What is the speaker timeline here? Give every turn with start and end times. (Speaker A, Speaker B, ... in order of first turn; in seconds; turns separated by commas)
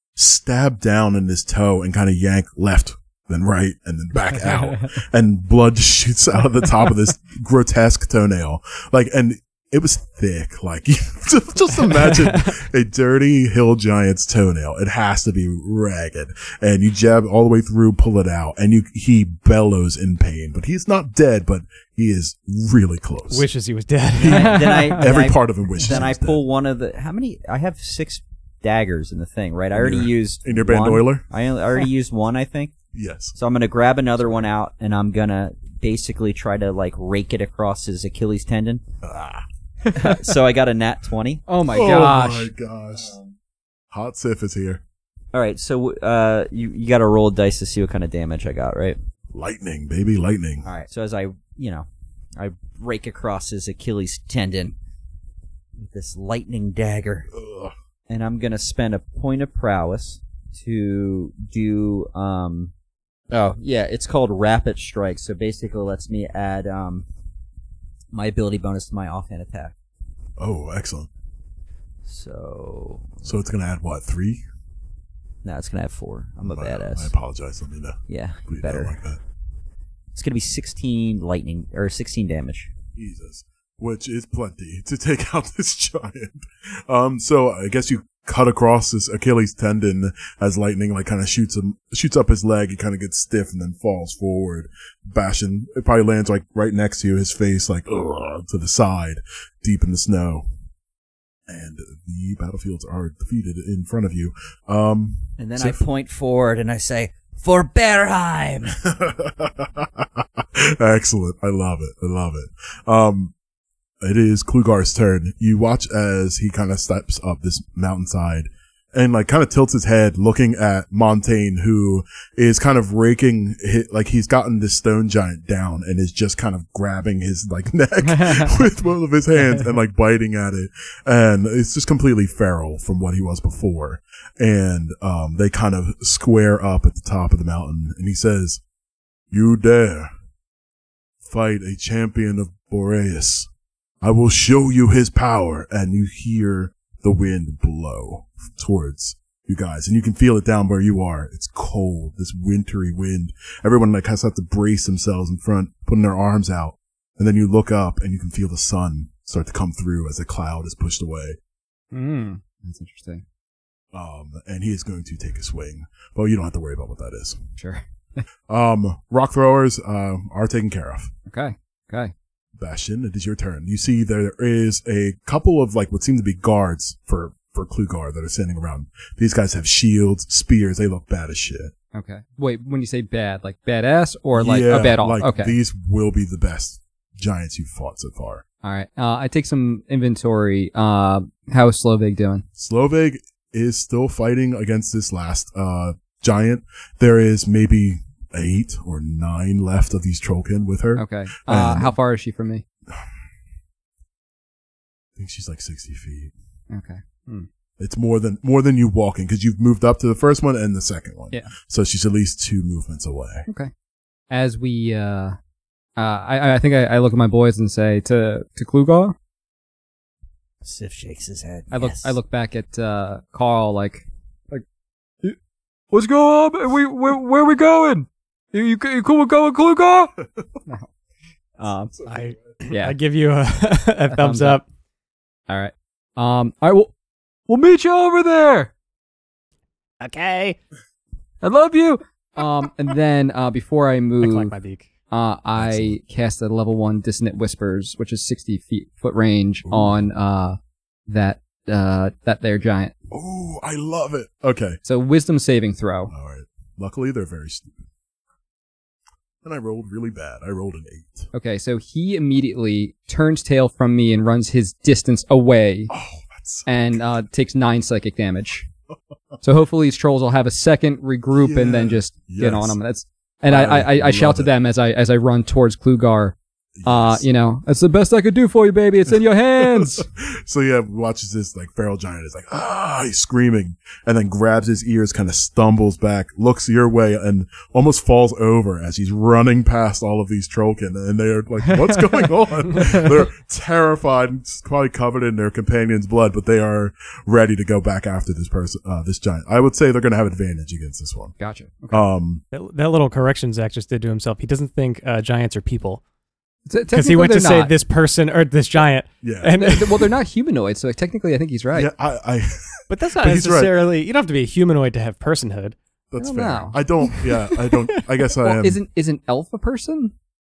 Speaker A: 0.1-23.5, Speaker B: 12.0-12.5, Speaker B: 23.3-24.7, Speaker C: 24.2-32.7, Speaker A: 24.2-26.4, Speaker D: 24.3-25.0, Speaker A: 29.7-31.2, Speaker A: 32.9-33.3, Speaker C: 33.3-38.8, Speaker A: 39.0-39.4, Speaker C: 39.9-41.4, Speaker D: 41.5-42.5, Speaker A: 41.7-43.2, Speaker A: 43.9-44.8, Speaker C: 45.3-49.0, Speaker A: 49.3-50.6, Speaker C: 50.6-54.7, Speaker C: 55.8-57.3, Speaker A: 57.3-57.7, Speaker C: 58.1-62.7, Speaker C: 63.3-67.0, Speaker C: 68.1-69.7, Speaker A: 70.4-71.1, Speaker C: 72.0-73.2, Speaker A: 73.2-74.4, Speaker C: 75.4-77.1, Speaker A: 76.4-79.2, Speaker C: 78.1-79.0, Speaker C: 80.1-82.7, Speaker A: 82.9-100.5, Speaker A: 101.5-105.8, Speaker C: 105.4-108.8, Speaker A: 108.8-113.3, Speaker A: 114.0-138.6, Speaker D: 128.1-128.5, Speaker A: 139.3-140.1, Speaker A: 141.2-143.5, Speaker A: 144.0-161.4, Speaker D: 161.9-163.2, Speaker A: 163.9-167.4, Speaker D: 167.6-168.2, Speaker A: 168.5-171.1, Speaker D: 171.3-172.1, Speaker A: 172.6-181.7, Speaker D: 181.9-185.5, Speaker A: 184.3-188.4, Speaker D: 188.6-192.4, Speaker A: 192.6-201.9, Speaker D: 200.9-202.6, Speaker A: 205.2-206.3, Speaker D: 206.7-207.5, Speaker A: 207.8-213.5, Speaker D: 214.3-215.4, Speaker D: 216.0-219.1, Speaker C: 220.6-222.1, Speaker D: 221.7-224.6, Speaker D: 225.9-230.1, Speaker C: 231.6-232.0, Speaker B: 232.1-234.6, Speaker D: 232.7-232.9, Speaker D: 234.1-234.6, Speaker D: 235.5-236.9, Speaker D: 237.5-238.7, Speaker B: 240.0-240.6, Speaker D: 241.4-244.5, Speaker B: 244.2-244.9, Speaker D: 245.1-250.6, Speaker A: 245.6-245.9, Speaker A: 249.6-250.0, Speaker D: 251.1-252.9, Speaker A: 253.1-254.8, Speaker D: 254.8-256.1, Speaker A: 256.1-257.9, Speaker A: 259.4-261.3, Speaker D: 261.3-265.9, Speaker A: 265.9-267.0, Speaker D: 266.6-268.6, Speaker D: 269.4-280.0, Speaker A: 271.3-272.8, Speaker A: 273.5-274.5, Speaker A: 276.8-277.2, Speaker A: 279.6-301.3, Speaker D: 292.8-293.0, Speaker D: 301.4-302.1, Speaker A: 301.9-302.4, Speaker B: 302.5-306.0, Speaker D: 306.7-307.7, Speaker B: 306.9-310.1, Speaker A: 309.2-309.6, Speaker D: 309.5-311.9, Speaker A: 311.7-313.9, Speaker B: 312.9-315.8, Speaker A: 316.1-318.8, Speaker D: 316.2-316.8, Speaker B: 317.1-317.9, Speaker D: 318.4-320.1